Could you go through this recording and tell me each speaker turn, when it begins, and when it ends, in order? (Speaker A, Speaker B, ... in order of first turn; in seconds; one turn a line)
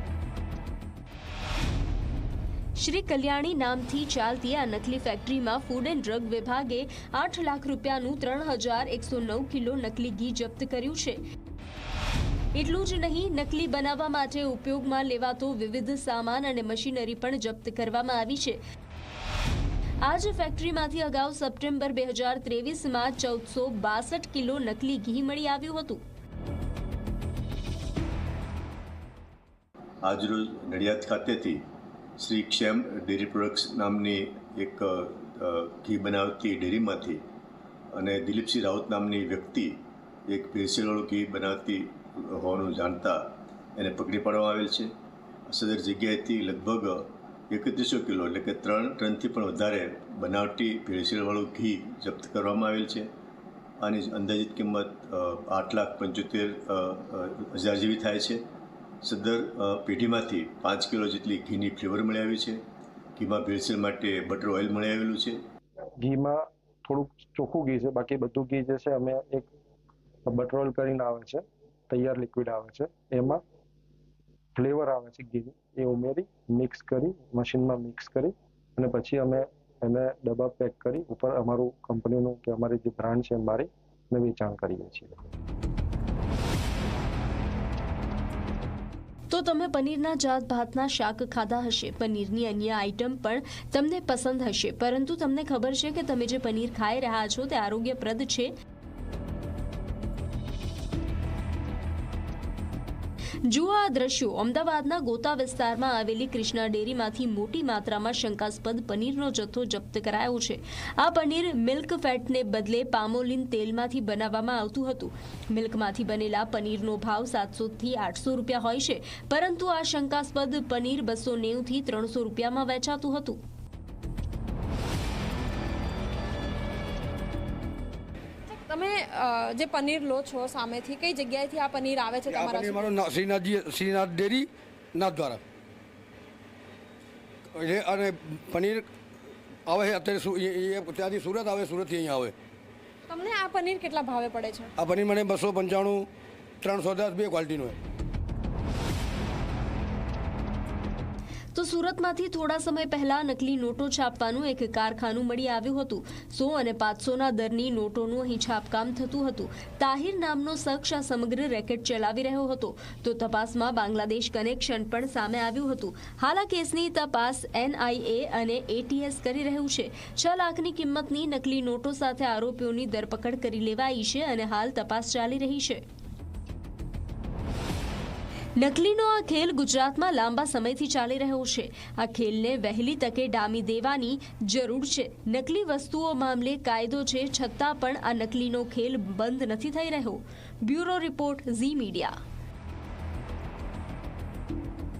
Speaker A: 2.8-11.2
Speaker A: 12.5-18.6
Speaker A: 20.0-26.0
Speaker B: 30.0-31.6
Speaker B: 32.2-37.2
Speaker B: 37.9-44.9
Speaker B: 45.5-53.1
Speaker B: 53.8-58.4
Speaker B: 59.0-62.6
Speaker B: 63.1-65.4
Speaker C: 66.0-69.5
Speaker C: 70.3-73.4
Speaker C: 74.5-85.2
Speaker A: 89.3-98.5
Speaker A: 103.4-123.4
Speaker D: 128.5-133.1
Speaker E: 132.3-135.4
Speaker E: 137.5-138.9
Speaker E: 139.7-142.3
Speaker D: 143.1-144.7
Speaker E: 144.8-146.1
Speaker E: 146.6-147.8
Speaker A: 151.5-175.8
Speaker A: 178.6-192.1